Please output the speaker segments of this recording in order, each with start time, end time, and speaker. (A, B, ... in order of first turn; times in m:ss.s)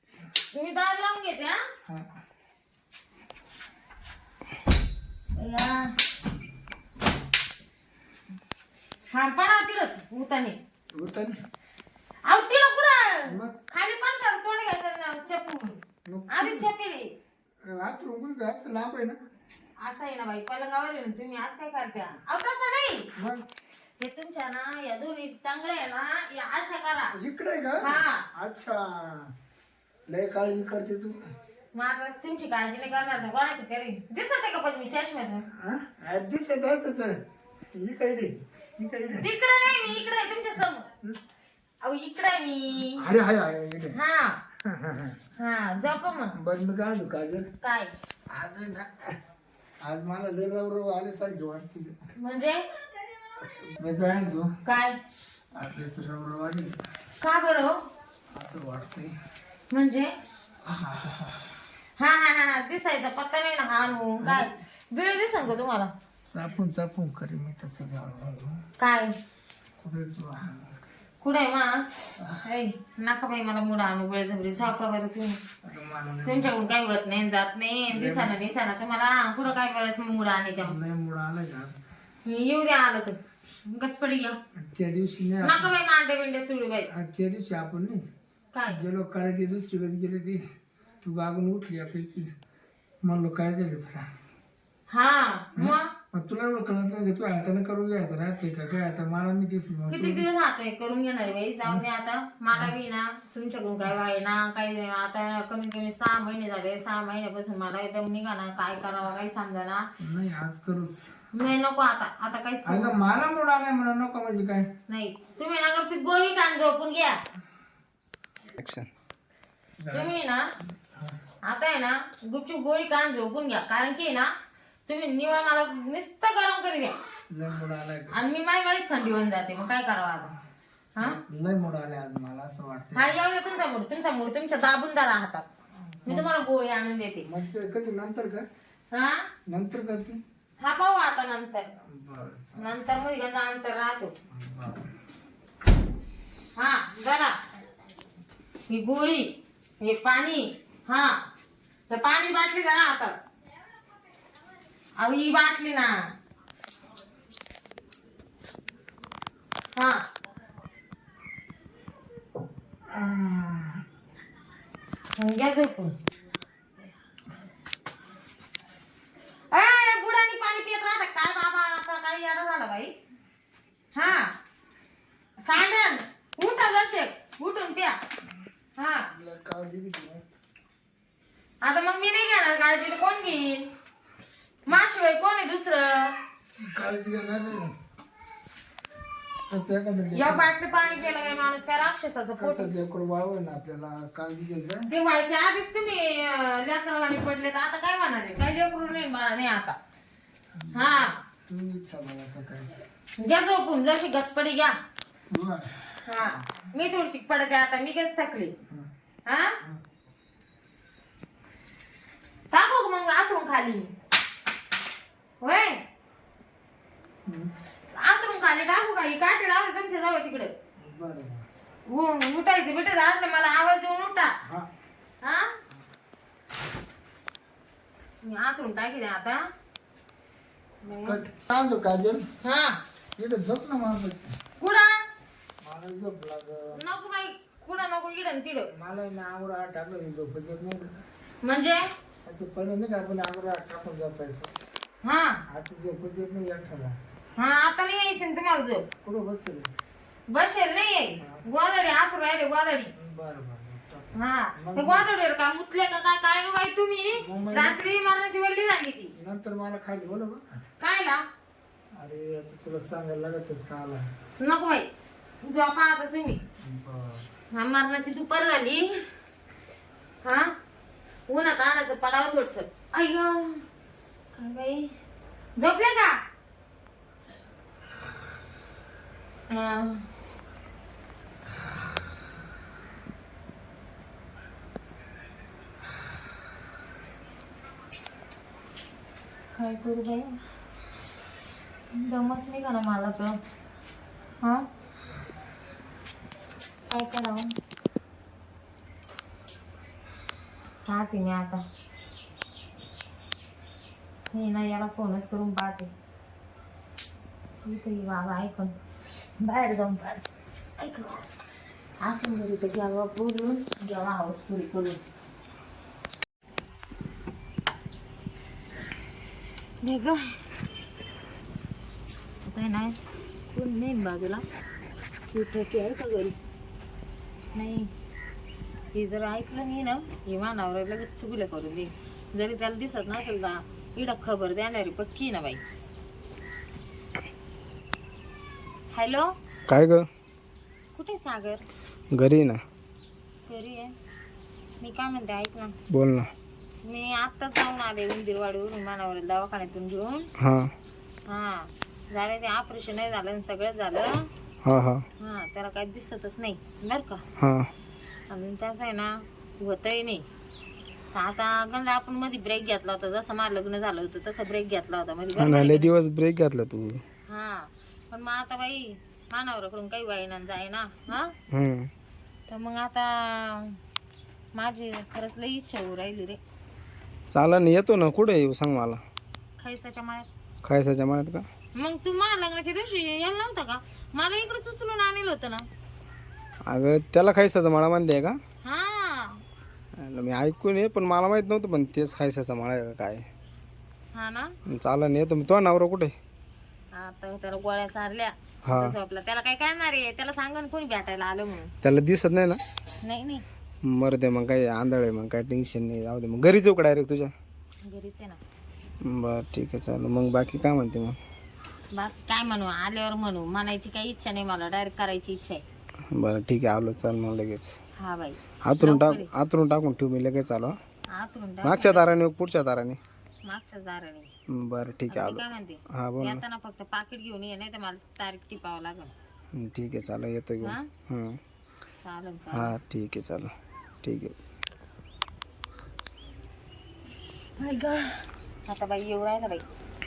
0:00.5-0:01.6 A
0:05.4-0:06.0 A
0:09.1-0:10.6 A
0:10.9-0:11.4 B
0:12.3-0:15.8 A
0:13.3-0:13.5 B
0:16.1-0:16.7 B
0:16.3-0:17.1 A
0:17.6-0:19.2 B
0:19.8-0:23.1 A
0:23.2-0:23.5 B
0:24.0-0:27.1 A
0:27.1-0:29.3 B
0:27.8-0:28.2 A
0:30.1-0:31.2 B
0:31.8-0:35.5 A
0:35.5-0:37.2 B
0:37.8-0:39.3 B
0:39.2-0:40.9 A
0:41.8-0:43.0 A
0:42.9-0:44.0 B
0:43.9-0:44.4 A
0:44.6-0:45.2 B
0:45.4-0:46.4 A
0:46.4-0:47.5 B
0:47.6-0:47.9 A
0:48.3-0:49.2 B
0:49.8-0:52.0 B
0:52.2-0:52.7 A
0:53.5-0:54.5 B
0:54.7-0:55.0 A
0:55.5-0:56.8 B
0:57.2-0:57.8 A
0:58.3-0:59.2 B
0:59.7-1:00.2 A
1:00.6-1:01.4 B
1:02.0-1:05.9 A
1:04.2-1:04.6 B
1:06.3-1:08.6 B
1:08.8-1:09.2 A
1:09.8-1:10.7 B
1:11.2-1:11.8 A
1:12.2-1:12.4 B
1:12.4-1:15.4 A
1:15.6-1:16.5 B
1:16.2-1:20.8 A
1:17.9-1:18.4 B
1:20.6-1:21.8 B
1:22.3-1:24.4 A
1:24.6-1:25.7 B
1:25.4-1:26.9 A
1:26.9-1:28.0 B
1:28.5-1:28.8 A
1:28.7-1:30.4 B
1:31.0-1:32.3 B
1:33.0-1:34.1 B
1:34.9-1:35.9 A
1:35.6-1:40.3 B
1:39.9-1:49.9 A
1:50.0-1:51.1 B
1:51.3-1:53.0 A
1:52.7-1:54.7 B
1:54.9-1:57.2 A
1:58.6-1:58.9 C
1:59.8-2:00.1 B
1:59.9-2:00.4 A
2:00.8-2:01.2 B
2:01.5-2:04.3 A
2:04.9-2:06.9 A
2:07.3-2:08.1 B
2:08.1-2:10.3 A
2:11.0-2:13.1 B
2:13.0-2:15.5 A
2:15.9-2:16.3 B
2:16.1-2:17.3 A
2:17.2-2:18.5 B
2:18.9-2:19.3 A
2:19.5-2:20.2 B
2:20.6-2:21.7 A
2:21.9-2:22.7 B
2:22.6-2:24.1 A
2:24.3-2:24.9 B
2:26.6-2:27.4 A
2:28.7-2:31.2 A
2:31.9-2:33.2 A
2:35.0-2:36.1 A
2:39.8-2:40.0 A
2:42.9-2:43.8 B
2:45.2-2:46.0 A
2:49.5-2:52.9 A
2:53.9-2:54.3 A
2:55.4-2:58.0 A
2:58.8-2:59.1 A
2:59.1-3:00.2 B
3:01.6-3:03.7 A
3:04.7-3:06.2 A
3:06.5-3:07.7 B
3:09.5-3:10.5 B
3:10.2-3:12.7 A
3:12.4-3:14.9 B
3:14.9-3:19.8 A
3:20.6-3:22.8 B
3:20.7-3:21.2 A
3:23.2-3:24.8 A
3:25.3-3:26.5 B
3:26.1-3:28.5 A
3:29.3-3:29.6 A
3:32.5-3:33.9 A
3:35.4-3:35.8 A
3:37.3-3:37.5 B
3:37.9-3:40.5 A
3:40.8-3:41.4 B
3:41.9-3:44.3 A
3:45.2-3:45.5 A
3:48.2-3:49.5 A
3:50.8-3:51.2 A
3:51.0-3:52.2 B
3:52.4-3:52.8 A
3:53.2-3:54.3 B
3:54.6-3:55.0 A
3:55.6-3:56.8 B
3:56.7-3:58.7 A
3:58.7-4:01.0 B
4:01.4-4:01.9 A
4:02.2-4:04.5 B
4:05.0-4:05.4 A
4:05.5-4:07.0 B
4:07.4-4:08.9 A
4:09.0-4:09.7 B
4:10.3-4:12.9 A
4:11.2-4:11.4 B
4:13.0-4:15.1 B
4:14.2-4:19.1 A
4:17.2-4:17.9 B
4:19.2-4:20.4 B
4:20.8-4:21.2 A
4:22.0-4:24.0 B
4:24.4-4:24.9 A
4:25.4-4:26.4 A
4:26.6-4:27.2 B
4:27.5-4:29.0 A
4:30.2-4:30.5 A
4:31.3-4:33.6 A
4:34.3-4:34.9 A
4:35.6-4:36.2 A
4:39.5-4:40.1 A
4:49.5-4:50.4 A
4:51.9-4:53.4 A
4:54.4-4:54.7 A
4:56.9-4:57.5 A
5:00.9-5:01.6 A
5:04.3-5:05.9 A
5:07.6-5:08.8 A
5:09.4-5:11.3 A
5:12.0-5:15.0 A
5:19.8-5:20.4 A
5:22.4-5:23.0 A
5:23.5-5:24.4 A
5:25.3-5:26.4 A
5:27.5-5:27.9 A
5:28.9-5:35.6 A
5:38.9-5:39.3 A
5:39.7-5:40.1 C
5:40.9-5:41.6 A
5:42.1-5:42.6 C
5:43.5-5:43.9 A
5:44.8-5:45.8 A
5:45.9-5:46.3 C
5:46.8-5:50.3 A
5:50.4-5:50.7 C
5:51.3-5:54.3 A
5:54.6-5:55.0 C
5:55.2-5:57.2 A
5:57.4-5:57.7 C
5:58.3-6:00.2 A
6:01.1-6:05.9 A
6:05.4-6:07.0 C
6:07.3-6:11.4 A
6:11.5-6:11.9 C
6:12.5-6:13.8 A
6:14.6-6:16.4 A
6:17.3-6:19.0 C
6:19.6-6:20.3 A
6:20.6-6:21.5 C
6:21.8-6:25.7 A
6:26.7-6:28.4 C
6:28.6-6:29.4 A
6:30.0-6:33.3 C
6:34.1-6:34.6 A
6:34.7-6:36.2 C
6:36.9-6:41.7 A
6:38.6-6:39.0 C
6:41.8-6:42.6 C
6:43.0-6:43.4 A
6:43.8-6:47.3 C
6:47.8-6:48.4 A
6:49.0-6:51.2 C
6:51.9-6:55.6 A
6:56.1-6:57.8 C
6:58.0-6:59.3 A
6:58.6-7:00.8 C
7:01.1-7:02.1 A
7:01.6-7:03.0 C
7:03.5-7:04.3 A
7:04.5-7:06.4 C
7:05.1-7:09.1 A
7:09.6-7:11.4 C
7:10.6-7:10.9 A
7:12.0-7:12.8 A
7:12.5-7:13.5 C
7:14.0-7:14.3 C
7:17.6-7:19.7 A